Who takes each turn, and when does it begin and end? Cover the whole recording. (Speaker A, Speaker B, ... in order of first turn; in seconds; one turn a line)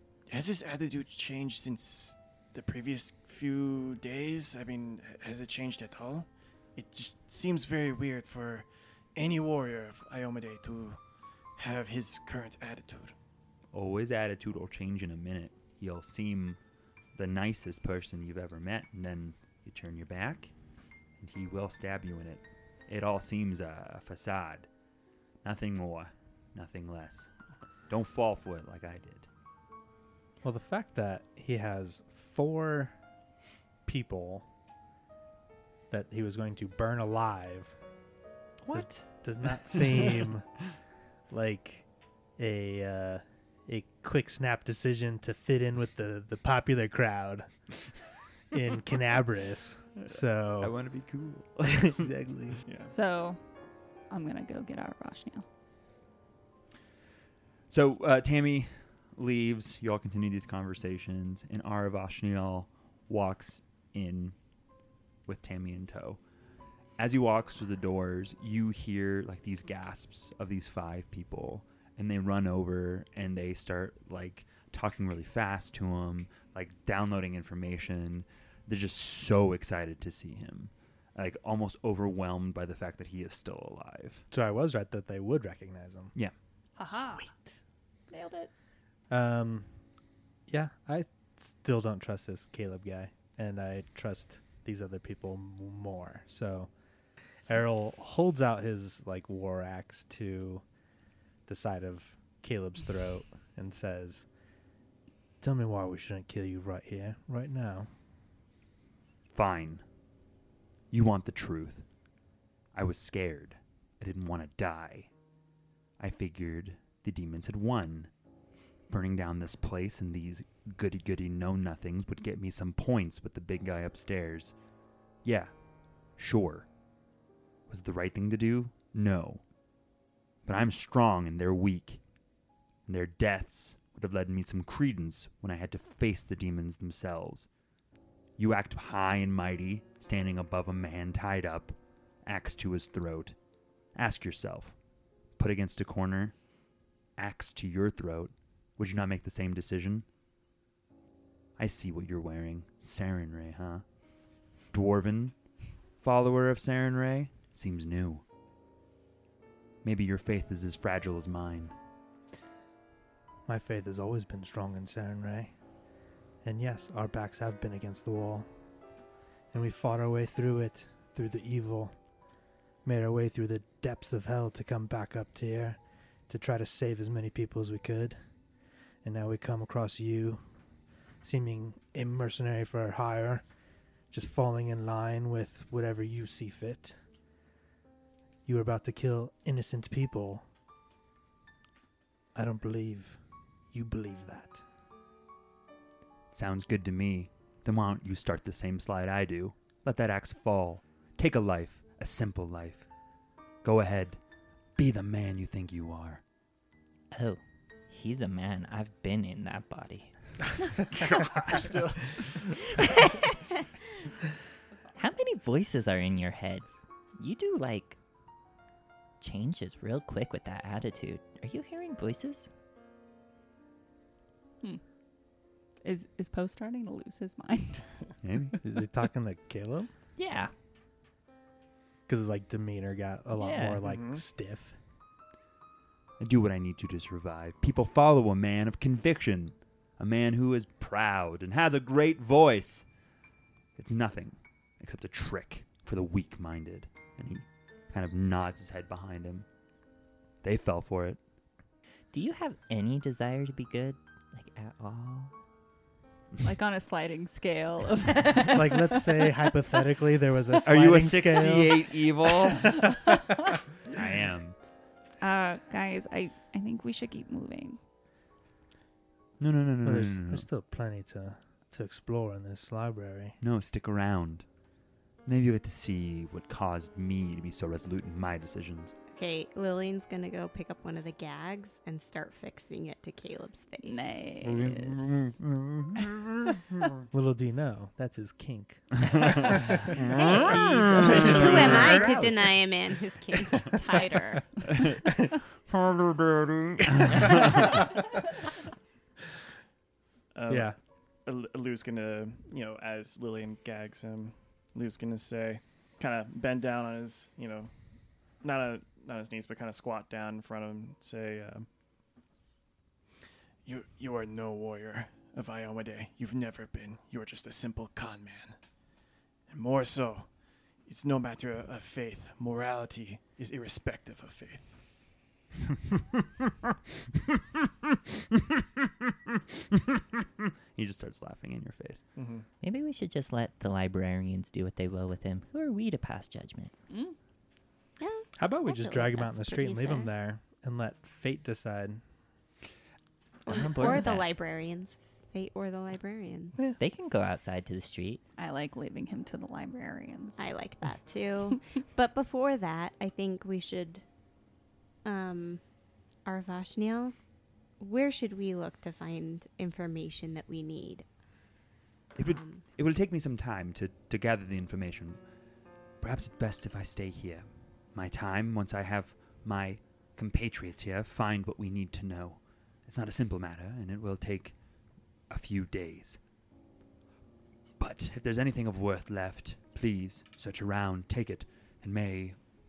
Speaker A: 0.3-11.0
Speaker A: 11.6-13.1
Speaker B: 13.7-16.6
Speaker B: 17.1-20.5
Speaker B: 21.2-24.7
Speaker B: 25.4-27.3
Speaker B: 27.9-29.3
Speaker C: 30.4-32.9
Speaker C: 33.9-34.4
Speaker C: 35.9-37.8
Speaker B: 38.6-39.0
Speaker C: 38.7-40.5
Speaker C: 41.3-41.9
Speaker C: 42.4-47.5
Speaker C: 48.5-50.7
Speaker B: 50.0-52.1
Speaker C: 51.9-52.6
Speaker A: 52.6-52.9
Speaker D: 52.9-53.4
Speaker D: 54.1-55.5
Speaker B: 57.7-64.3
Speaker B: 65.2-66.2
Speaker B: 67.0-84.2
Speaker C: 84.3-86.1
Speaker D: 86.8-87.3
Speaker C: 87.1-87.5
Speaker D: 88.1-88.5
Speaker C: 89.1-89.7
Speaker C: 90.5-96.7
Speaker C: 97.5-100.6
Speaker C: 101.5-104.2
Speaker C: 105.4-107.9
Speaker B: 109.3-109.8
Speaker B: 110.9-111.8
Speaker B: 112.7-115.1
Speaker B: 116.0-118.1
Speaker B: 118.9-124.5
Speaker B: 125.2-125.5
Speaker B: 126.2-126.7
Speaker B: 127.7-129.4
Speaker B: 130.4-132.0
Speaker B: 132.9-137.5
Speaker B: 138.4-143.3
Speaker B: 143.9-144.7
Speaker B: 145.4-146.3
Speaker B: 147.2-150.1
Speaker B: 151.6-153.8
Speaker B: 154.7-155.3
Speaker B: 156.0-158.2
Speaker B: 159.8-161.7
Speaker C: 163.5-165.5
Speaker C: 166.4-168.5
Speaker C: 169.5-171.9
Speaker C: 172.8-175.8
Speaker C: 176.3-178.2
Speaker C: 179.0-180.4
Speaker C: 181.2-183.4
Speaker C: 184.1-187.0
Speaker C: 188.4-190.4
Speaker C: 192.3-193.2
Speaker C: 193.7-194.6
Speaker B: 196.3-202.8
Speaker B: 203.6-204.2
Speaker B: 204.8-206.2
Speaker E: 207.1-210.1
Speaker A: 210.9-212.2
Speaker E: 214.9-218.0
Speaker E: 219.2-222.5
Speaker D: 225.8-227.8
Speaker B: 228.2-228.6
Speaker C: 228.6-229.9
Speaker E: 230.2-230.5
Speaker C: 232.1-234.7
Speaker E: 233.3-233.9
Speaker A: 233.8-234.2
Speaker B: 236.2-242.8
Speaker B: 243.8-249.4
Speaker B: 250.4-251.2
Speaker E: 252.1-255.3
Speaker D: 256.4-258.9
Speaker C: 258.5-262.7
Speaker B: 260.6-263.0
Speaker B: 263.9-264.6
Speaker D: 265.2-267.8
Speaker B: 269.4-270.4
Speaker C: 269.8-273.4
Speaker B: 273.4-274.4
Speaker B: 275.2-278.9
Speaker F: 279.1-284.4
Speaker D: 283.8-285.4
Speaker B: 284.4-286.6
Speaker C: 287.1-289.9
Speaker B: 289.0-292.1
Speaker F: 290.1-294.6
Speaker E: 290.4-292.2
Speaker C: 291.2-292.4
Speaker B: 294.6-295.0
Speaker B: 295.7-297.8
Speaker C: 297.2-298.0
Speaker A: 300.3-300.7
Speaker C: 300.5-300.7
Speaker A: 301.2-307.7
Speaker A: 308.4-311.7
Speaker A: 313.6-318.6
Speaker A: 319.5-320.3
Speaker A: 320.8-324.8
Speaker B: 327.9-332.0
Speaker A: 332.1-332.4
Speaker E: 332.6-336.7
Speaker D: 336.9-337.1
Speaker F: 338.0-340.1
Speaker C: 338.4-342.0
Speaker E: 343.4-344.3
Speaker F: 343.4-346.6
Speaker E: 346.8-348.2
Speaker D: 348.4-350.4
Speaker F: 350.4-354.0
Speaker F: 355.0-355.6
Speaker F: 356.2-357.1
Speaker F: 357.8-361.0
Speaker B: 362.1-365.2
Speaker F: 362.2-362.6
Speaker B: 366.0-374.5
Speaker B: 375.3-376.2
Speaker B: 377.8-382.4